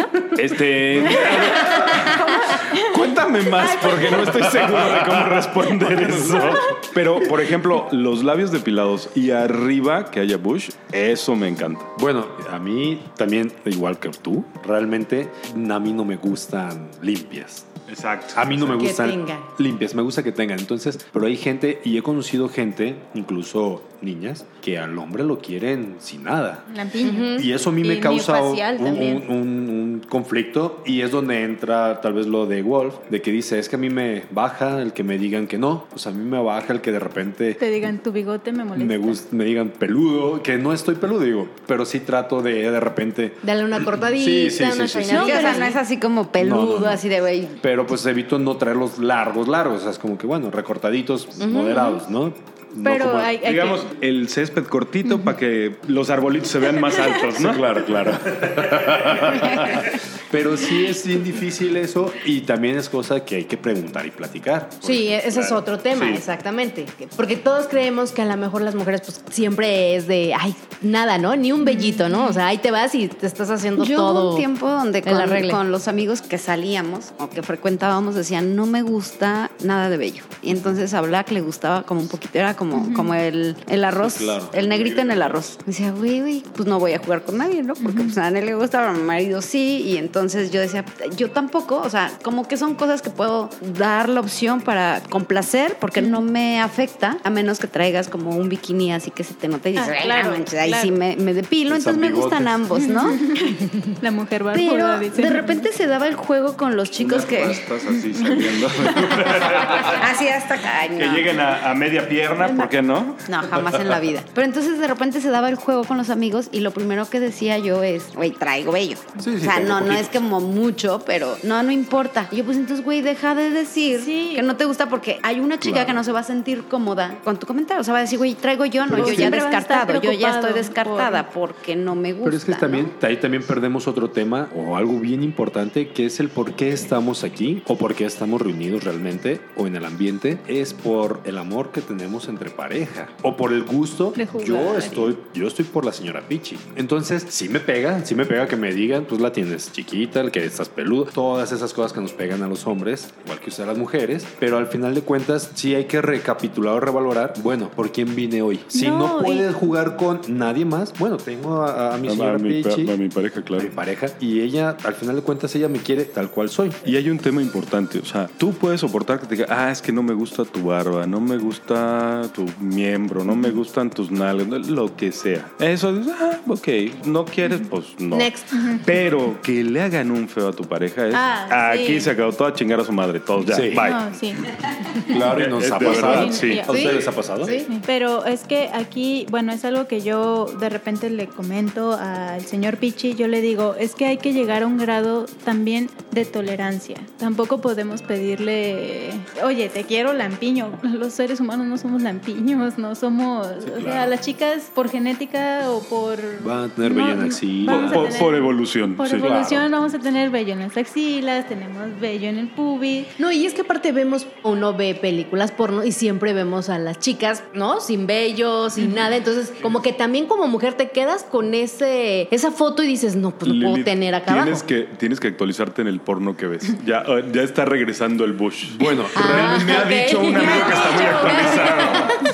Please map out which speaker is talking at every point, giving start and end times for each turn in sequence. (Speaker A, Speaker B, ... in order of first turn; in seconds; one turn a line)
Speaker A: 0.3-11.9
Speaker B: 0.4-1.3
Speaker C: 2.5-2.8
Speaker B: 4.1-6.7
Speaker B: 11.9-17.7
Speaker A: 17.9-18.6
Speaker B: 18.3-26.6
Speaker D: 18.7-19.4
Speaker C: 26.7-29.2
Speaker D: 27.0-27.5
Speaker B: 27.3-37.6
Speaker C: 37.6-39.2
Speaker B: 38.7-45.4
Speaker D: 43.4-45.8
Speaker C: 45.1-45.8
Speaker E: 45.1-47.6
Speaker B: 46.4-47.0
Speaker B: 47.6-53.4
Speaker C: 52.8-53.9
Speaker A: 53.4-57.7
Speaker B: 57.3-65.1
Speaker A: 58.3-59.9
Speaker D: 64.8-74.5
Speaker A: 65.1-66.2
Speaker C: 71.6-72.4
Speaker E: 73.8-103.2
Speaker D: 75.0-75.6
Speaker C: 82.7-83.1
Speaker B: 84.0-85.2
Speaker A: 84.7-85.1
Speaker C: 87.8-88.1
Speaker C: 99.8-100.9
Speaker B: 101.7-102.6
Speaker C: 102.8-105.7
Speaker E: 104.5-107.7
Speaker A: 107.0-110.1
Speaker C: 108.0-108.6
Speaker E: 109.3-111.4
Speaker A: 110.9-113.8
Speaker E: 113.2-132.9
Speaker B: 119.2-120.2
Speaker C: 123.9-124.5
Speaker B: 125.6-126.0
Speaker B: 128.8-129.4
Speaker C: 128.9-131.2
Speaker B: 132.2-162.9
Speaker C: 144.2-145.1
Speaker C: 158.7-159.5
Speaker A: 162.1-163.7
Speaker B: 163.6-166.9
Speaker A: 166.8-184.0
Speaker C: 173.3-173.6
Speaker D: 178.1-178.6
Speaker C: 178.5-178.8
Speaker C: 181.1-182.1
Speaker B: 183.5-183.9
Speaker C: 183.7-184.4
Speaker B: 185.1-187.6
Speaker A: 185.2-186.6
Speaker C: 185.9-186.8
Speaker D: 186.7-187.7
Speaker C: 187.7-213.1
Speaker A: 203.7-204.1
Speaker B: 206.4-208.2
Speaker A: 207.7-209.5
Speaker B: 209.2-209.6
Speaker D: 213.2-224.6
Speaker A: 223.4-232.2
Speaker B: 228.7-229.8
Speaker D: 229.1-232.2
Speaker E: 230.3-231.4